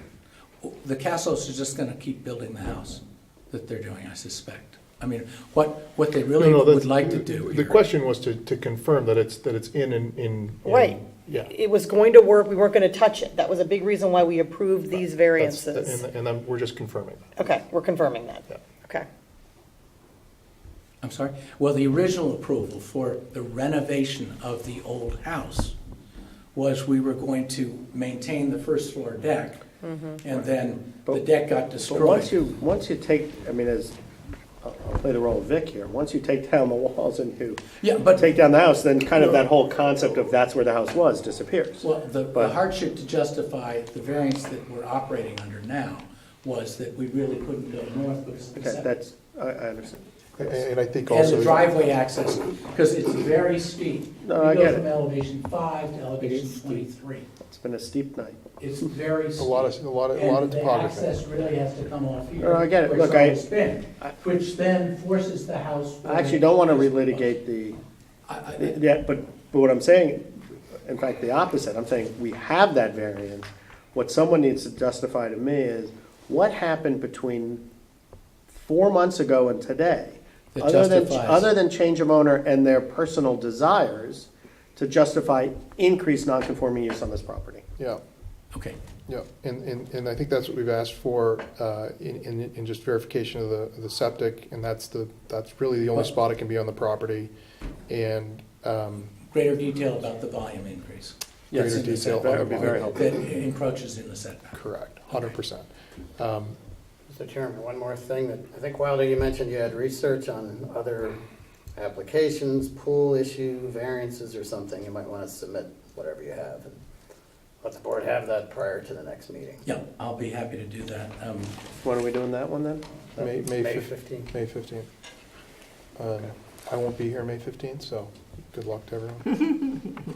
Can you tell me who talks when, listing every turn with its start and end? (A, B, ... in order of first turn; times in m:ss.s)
0:00.6-0:07.8 A
0:06.4-0:11.5 B
0:10.6-0:16.0 C
0:15.4-0:17.2 B
0:17.4-0:19.1 C
0:21.0-0:25.8 A
0:26.6-0:29.6 A
0:29.8-0:30.2 C
0:30.2-0:32.4 A
0:31.9-0:33.9 D
0:34.6-0:42.6 D
0:37.8-0:38.4 A
0:39.1-0:39.5 A
0:41.8-0:48.9 A
0:48.6-0:50.5 D
0:50.4-0:51.7 B
0:51.1-0:57.2 A
0:54.2-0:54.9 D
0:56.2-0:56.9 D
0:57.4-0:58.4 D
0:58.6-1:07.3 A
0:59.4-1:01.1 B
1:02.4-1:03.4 D
1:06.0-1:07.8 D
1:08.3-1:08.8 A
1:08.6-1:10.2 D
1:10.8-1:17.6 D
1:18.5-1:27.6 D
1:20.5-1:21.5 A
1:29.1-1:37.3 B
1:37.9-1:39.1 B
1:39.3-1:44.6 A
1:41.5-1:43.0 D
1:41.5-1:43.0 B
1:44.5-1:46.6 B
1:47.1-1:51.2 E
1:51.8-1:56.8 E
1:57.6-1:59.6 E
1:59.6-2:01.6 A
2:01.8-2:02.8 D
2:03.2-2:04.3 E
2:03.2-2:04.9 B
2:06.0-2:09.7 B